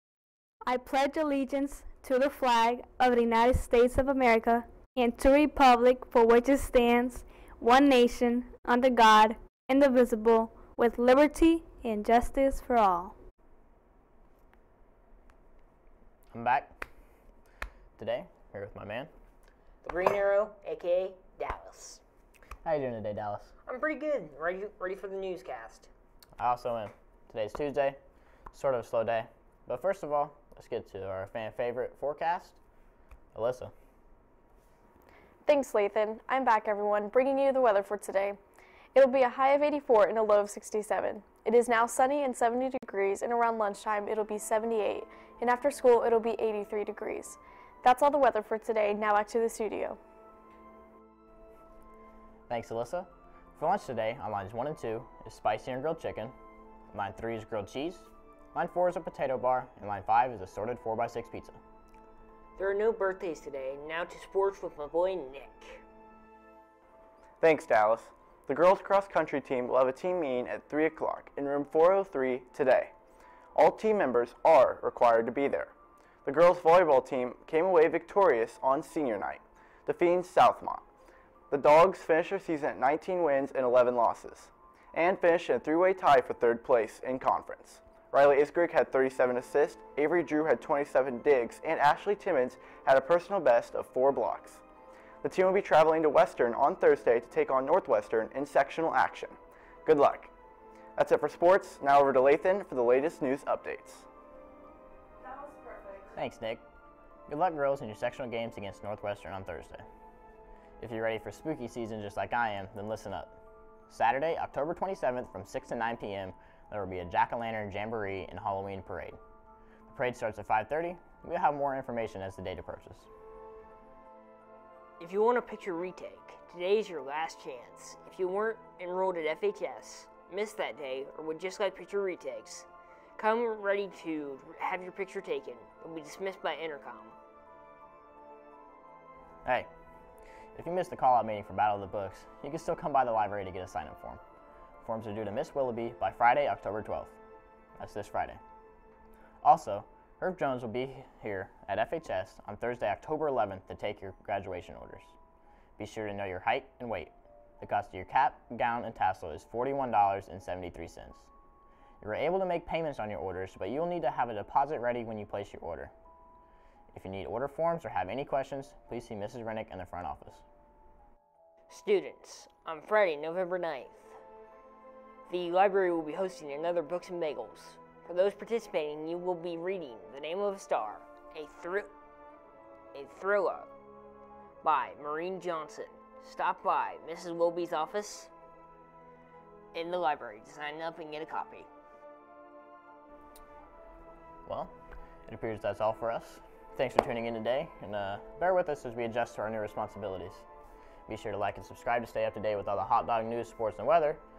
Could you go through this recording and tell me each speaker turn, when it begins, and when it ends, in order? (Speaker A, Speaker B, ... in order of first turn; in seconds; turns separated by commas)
Speaker A: 0.7-13.1, Speaker B: 16.3-16.7, Speaker B: 18.0-19.1, Speaker C: 19.8-22.0, Speaker B: 22.6-23.5, Speaker C: 23.7-25.9, Speaker B: 26.4-28.0, Speaker B: 28.5-32.6, Speaker B: 33.3-33.7, Speaker D: 35.5-38.4, Speaker D: 38.9-50.0, Speaker B: 52.5-56.3, Speaker B: 56.9-61.6, Speaker C: 62.6-65.8, Speaker E: 67.4-72.9, Speaker E: 73.5-80.8, Speaker E: 81.5-94.6, Speaker E: 95.2-100.3, Speaker E: 101.0-104.1, Speaker D: 105.2-106.1, Speaker B: 106.2-106.6, Speaker B: 107.3-109.8, Speaker B: 110.8-113.4, Speaker B: 113.9-119.2, Speaker B: 119.9-123.1, Speaker C: 125.0-137.2, Speaker B: 140.6-144.2, Speaker B: 144.8-147.2, Speaker B: 147.8-148.4, Speaker B: 149.4-155.2, Speaker B: 155.8-161.3, Speaker B: 162.0-165.9, Speaker B: 166.9-170.4, Speaker C: 171.7-174.2, Speaker C: 175.3-181.9, Speaker C: 182.9-183.7, Speaker C: 184.6-188.3, Speaker C: 189.7-191.7, Speaker B: 194.5-194.7, Speaker B: 195.3-200.4, Speaker B: 201.1-204.2